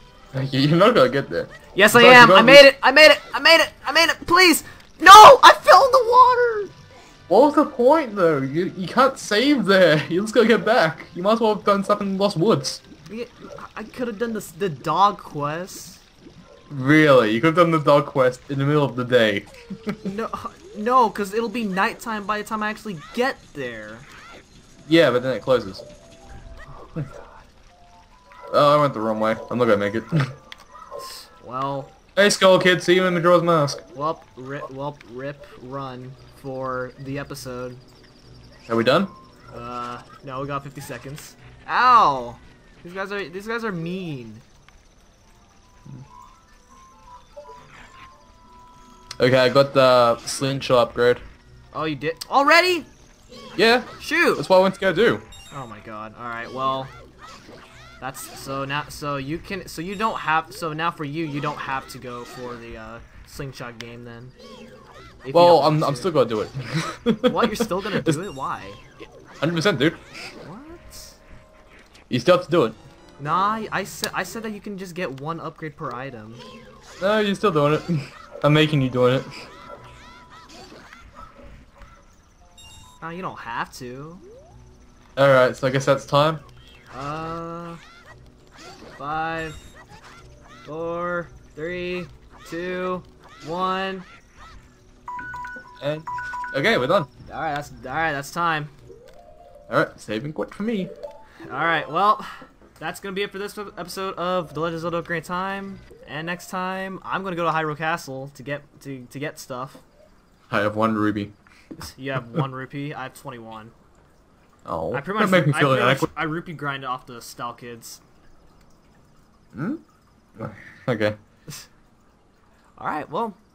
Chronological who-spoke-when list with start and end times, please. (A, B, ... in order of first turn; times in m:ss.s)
0:00.3-0:02.7 A
0:01.8-0:06.7 B
0:07.3-0:12.8 A
0:13.1-0:16.0 B
0:16.7-0:20.0 A
0:20.0-0:24.1 B
0:24.9-0:25.8 A
0:26.8-0:27.3 B
0:28.5-0:30.4 A
0:31.0-0:31.9 B
0:32.1-0:33.8 A
0:33.9-0:37.8 B
0:38.7-0:39.1 A
0:39.5-0:44.4 B
0:49.2-0:51.2 A
0:51.7-0:52.9 B
0:53.6-0:55.2 A
0:54.0-0:54.4 B
0:55.5-0:56.9 B
0:58.0-1:04.3 B
1:05.2-1:06.1 B
1:05.3-1:08.2 A
1:07.2-1:08.8 B
1:09.4-1:10.0 A
1:10.4-1:11.2 B
1:12.1-1:12.8 A
1:13.2-1:16.4 B
1:17.0-1:19.4 A
1:23.0-1:24.2 B
1:25.2-1:26.4 A
1:26.9-1:27.8 B
1:29.0-1:29.7 B
1:30.6-1:34.1 B
1:35.8-1:37.1 A
1:37.3-1:38.7 B
1:39.7-1:40.9 A
1:41.5-1:49.8 B
1:50.5-1:51.4 A
1:51.8-1:53.7 B
1:54.6-1:56.1 A
1:54.9-1:58.0 B
1:59.5-1:59.8 A
2:00.4-2:01.2 A
2:02.8-2:03.4 B